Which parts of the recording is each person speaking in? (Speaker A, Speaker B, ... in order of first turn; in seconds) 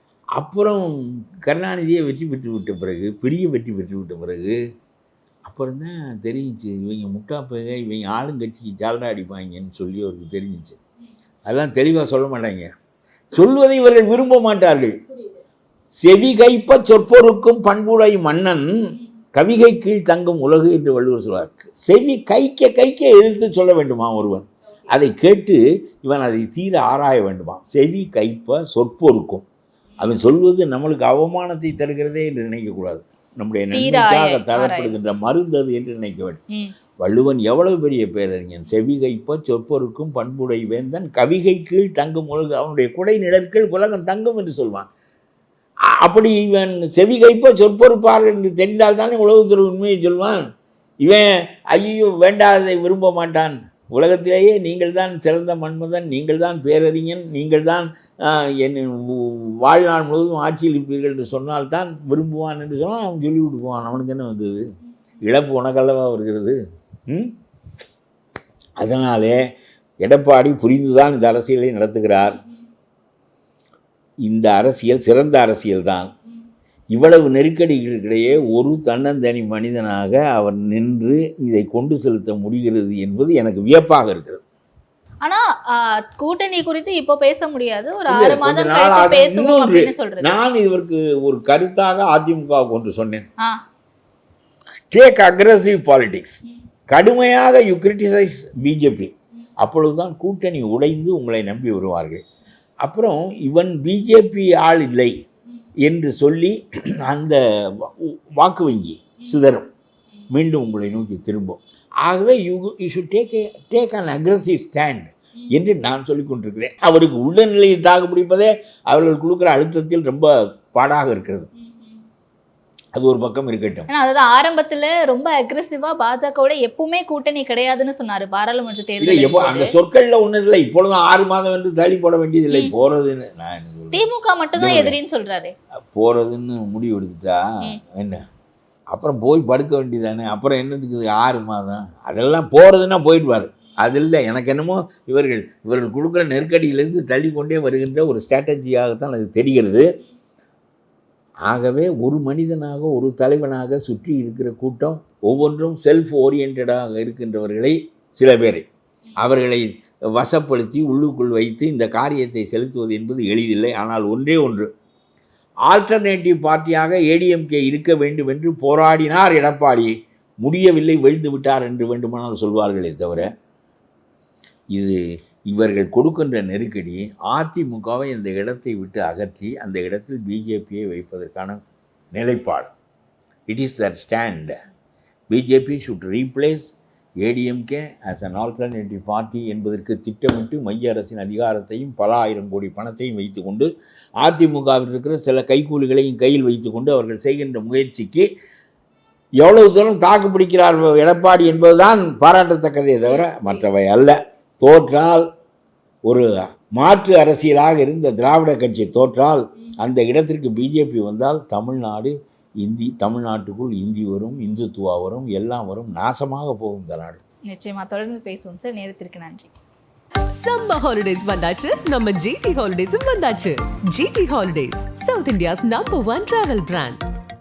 Speaker A: 0.4-4.6, 5.5-10.8, 11.4-12.7, 13.3-15.0, 16.0-18.7, 19.3-29.4, 30.0-36.4, 37.0-44.9, 46.0-50.4, 51.0-64.6, 65.2-67.3, 68.8-69.3, 70.0-72.4, 74.2-76.1, 76.9-84.4, 88.1-93.2, 94.9-96.4, 96.9-102.2, 102.8-105.1, 105.8-109.7, 110.3-121.5, 122.9-123.9, 129.0-134.0, 134.6-134.9, 135.9-138.2, 138.9-149.9, 151.5-158.7, 159.2-164.7, 165.7-173.3, 174.7-181.6, 182.1-182.7, 183.5-184.5, 185.3-198.3, 199.4-205.2, 206.1-217.2
Speaker B: 33.7-35.0, 85.2-90.4, 123.9-129.8, 133.9-135.5, 217.5-219.5
Speaker C: 220.4-227.0